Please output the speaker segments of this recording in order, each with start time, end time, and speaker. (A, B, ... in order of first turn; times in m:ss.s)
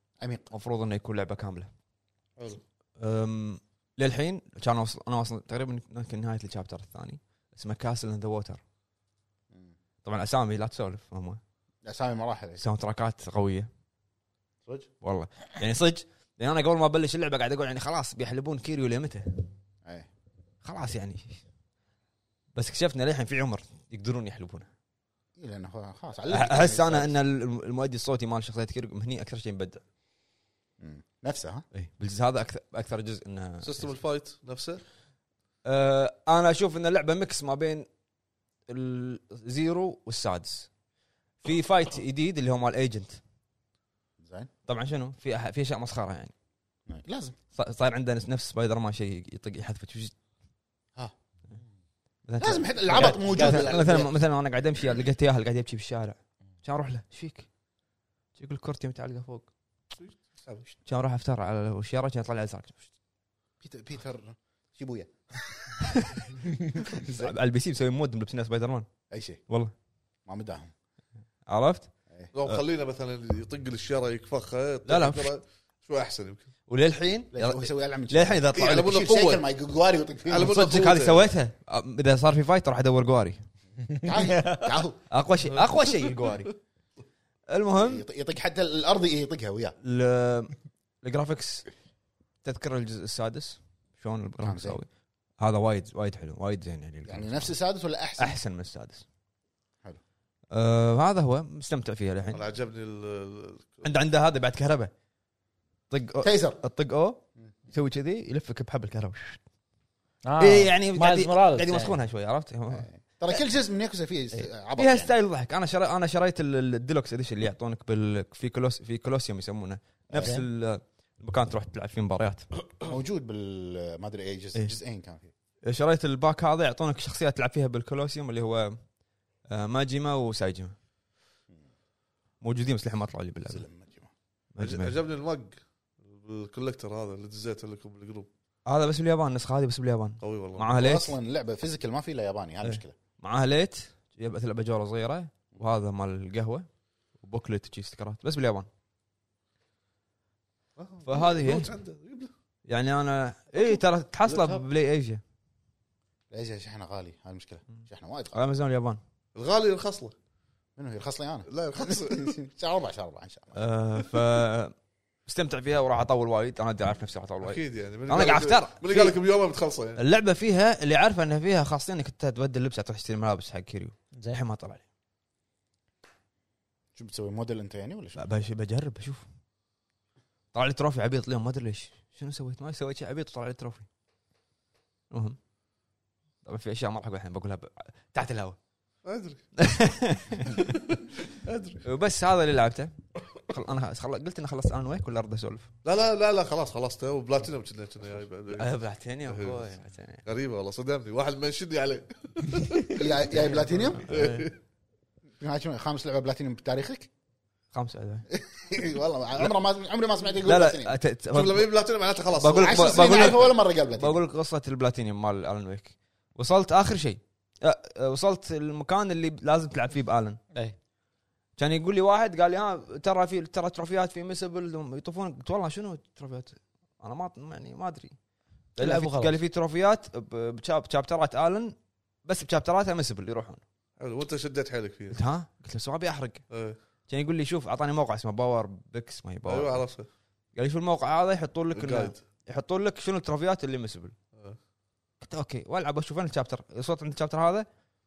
0:00.2-0:00.5 A
0:00.5-0:01.7 B
0:03.0-0:08.6 B
0:10.0-0:11.4 B
0:11.8-0:12.6 A
0:12.6-0:13.7 B
0:15.0-0:19.4 B
0:20.6-0:21.4 B
0:22.5-0:24.7 B
0:25.4-0:27.1 A
0:26.3-0:29.8 B
0:30.8-0:31.6 A
0:31.7-0:33.9 B
0:33.6-0:34.8 C
0:35.6-0:37.8 B
0:38.7-0:40.7 B
0:41.4-0:43.2 B
0:44.2-0:44.5 A
0:44.7-0:46.3 B
0:46.9-0:47.4 A
0:47.5-0:50.1 B
0:52.3-0:57.5 B
0:52.4-0:54.1 A
0:53.0-0:53.7 D
0:58.4-0:59.5 B
1:00.0-1:00.7 C
1:00.9-1:02.9 B
1:03.6-1:05.5 A
1:05.8-1:08.9 B
1:06.8-1:07.3 A
1:09.1-1:09.4 A
1:10.2-1:10.7 A
1:11.5-1:11.9 B
1:12.3-1:16.5 C
1:14.8-1:15.3 B
1:16.7-1:19.0 B
1:17.3-1:20.6 A
1:18.5-1:19.4 C
1:20.3-1:21.2 C
1:20.4-1:23.4 B
1:24.0-1:24.6 D
1:24.0-1:25.0 A
1:25.1-1:26.5 B
1:25.5-1:26.4 C
1:27.5-1:28.0 B
1:27.7-1:29.7 A
1:29.8-1:31.7 B
1:32.4-1:34.9 B
1:34.4-1:34.8 A
1:35.4-1:37.5 B
1:37.0-1:38.4 A
1:38.2-1:39.0 B
1:40.5-1:42.4 B
1:42.3-1:43.8 C
1:43.8-1:44.9 B
1:45.9-1:49.4 B
1:46.2-1:46.6 A
1:50.2-1:52.0 D
1:50.4-1:53.3 B
1:52.7-1:55.1 A
1:54.3-2:02.5 B
2:00.1-2:00.4 A
2:02.9-2:05.3 A
2:05.6-2:08.8 B
2:09.5-2:10.7 B
2:12.4-2:13.6 B
2:13.5-2:14.1 A
2:14.5-2:15.0 B
2:14.6-2:18.3 C
2:18.6-2:21.1 B
2:20.2-2:20.8 C
2:20.7-2:22.9 A
2:22.6-2:26.6 B
2:27.2-2:28.7 B
2:30.8-2:32.3 C
2:31.0-2:31.7 B
2:32.7-2:35.2 B
2:34.3-2:34.6 D
2:36.3-2:38.4 A
2:38.3-2:39.0 B
2:39.3-2:40.1 C
2:40.8-2:43.6 A
2:41.5-2:42.3 C
2:43.6-2:44.7 B
2:45.2-2:49.2 B
2:47.4-2:50.0 C
2:50.0-2:54.8 B
2:54.1-2:54.4 D
2:56.9-2:58.2 A
2:58.2-2:59.2 B
3:00.5-3:03.9 B
3:05.1-3:05.4 B
3:06.4-3:08.6 B
3:09.0-3:09.4 C
3:09.6-3:10.8 B
3:11.0-3:11.8 C
3:11.8-3:15.7 B
3:15.8-3:18.7 C
3:18.5-3:20.2 B
3:19.3-3:19.7 C
3:20.2-3:23.0 C
3:23.0-3:24.1 A
3:23.9-3:24.5 C
3:24.1-3:24.5 B
3:25.4-3:27.1 A
3:27.7-3:28.2 B
3:28.3-3:30.9 A
3:30.4-3:31.7 B
3:31.3-3:33.4 C
3:32.3-3:40.4 B
3:32.6-3:34.2 A
3:41.6-3:48.1 B
3:48.8-3:53.6 B
3:48.8-3:49.4 D
3:54.0-3:55.2 C
3:55.1-3:56.4 B
3:56.5-3:56.8 C
3:57.1-3:59.8 B
3:59.4-4:00.1 C
4:00.6-4:04.1 B
4:01.7-4:02.2 C
4:05.2-4:07.7 B